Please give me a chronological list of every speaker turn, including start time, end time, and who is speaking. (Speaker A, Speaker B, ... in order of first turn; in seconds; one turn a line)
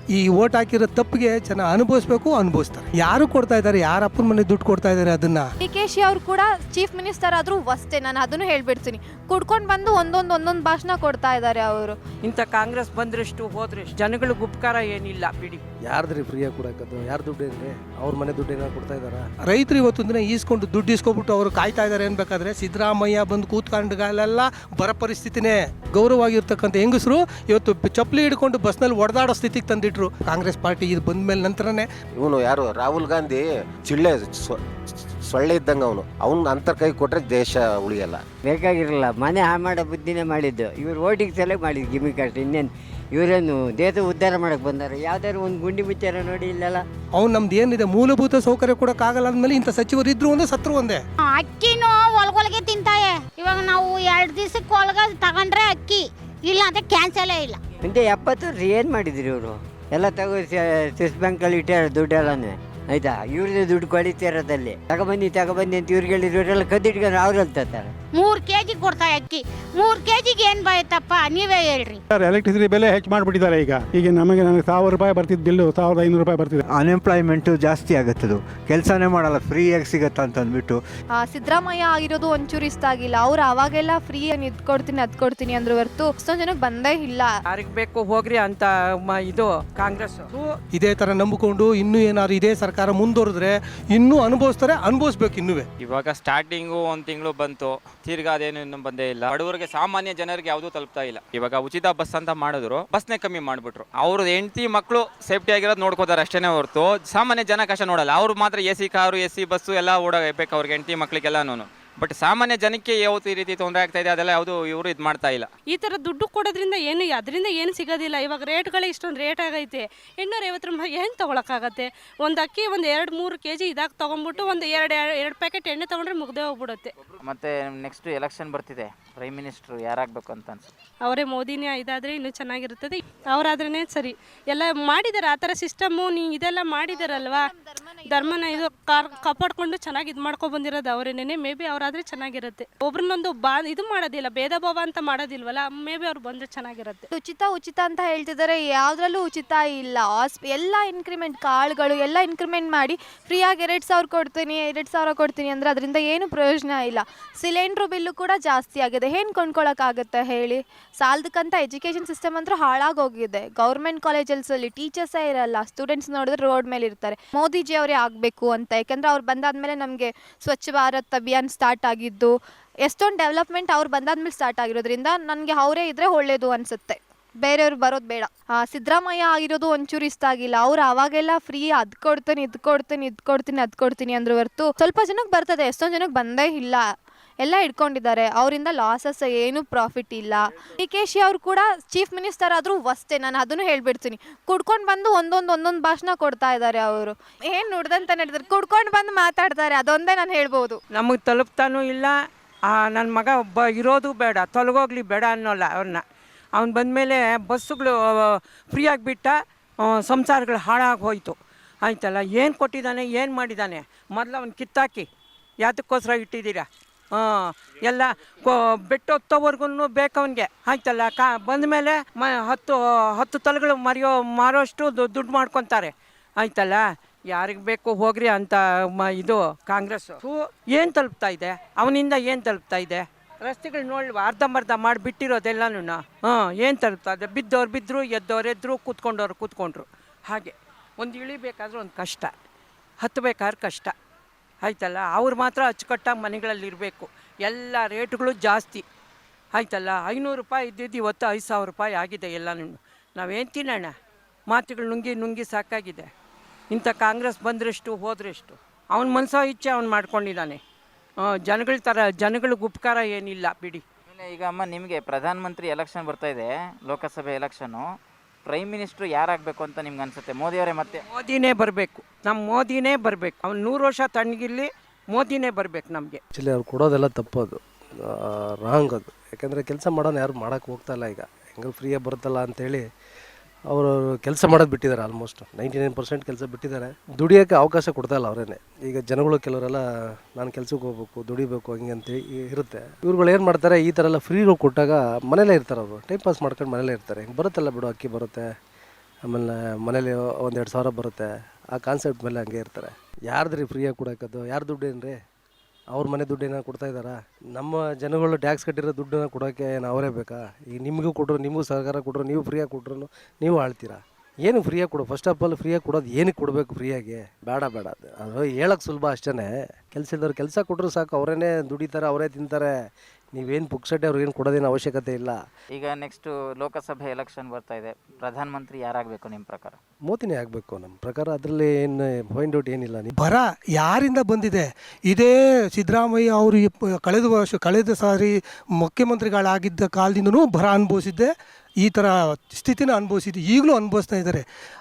Speaker A: 0.1-5.5
Speaker B: 5.6-12.0
Speaker C: 12.2-15.6
Speaker D: 15.9-19.3
Speaker A: 19.4-31.9
Speaker E: 32.2-34.6
Speaker E: 35.3-38.2
Speaker F: 38.5-46.8
Speaker A: 47.1-51.0
Speaker G: 51.3-57.6
Speaker F: 57.8-67.9
Speaker G: 68.1-72.0
Speaker H: 72.1-76.6
Speaker I: 76.7-80.8
Speaker B: 81.2-87.3
Speaker C: 87.5-90.5
Speaker A: 90.7-95.7
Speaker J: 95.8-115.5
Speaker K: 115.7-126.9
Speaker L: 127.2-130.7
Speaker K: 131.0-137.5
Speaker B: 136.9-139.3
Speaker K: 138.0-147.1
Speaker B: 147.1-172.3
Speaker B: 172.8-186.9
Speaker B: 187.4-200.8
Speaker C: 200.9-202.2
Speaker C: 202.7-206.0
Speaker C: 206.6-215.1
Speaker C: 215.6-242.3
Speaker C: 243.0-243.9
Speaker C: 244.6-248.8
Speaker C: 249.5-253.9
Speaker C: 254.5-256.1
Speaker C: 256.7-260.6
Speaker C: 261.2-263.8
Speaker L: 264.1-267.8
Speaker L: 268.5-271.0
Speaker C: 271.1-276.2
Speaker D: 276.4-282.9
Speaker D: 283.7-289.8
Speaker D: 290.4-298.5
Speaker D: 299.3-305.2
Speaker D: 305.9-322.7
Speaker D: 323.3-325.4
Speaker L: 325.8-329.8
Speaker D: 330.1-333.1
Speaker A: 333.2-344.4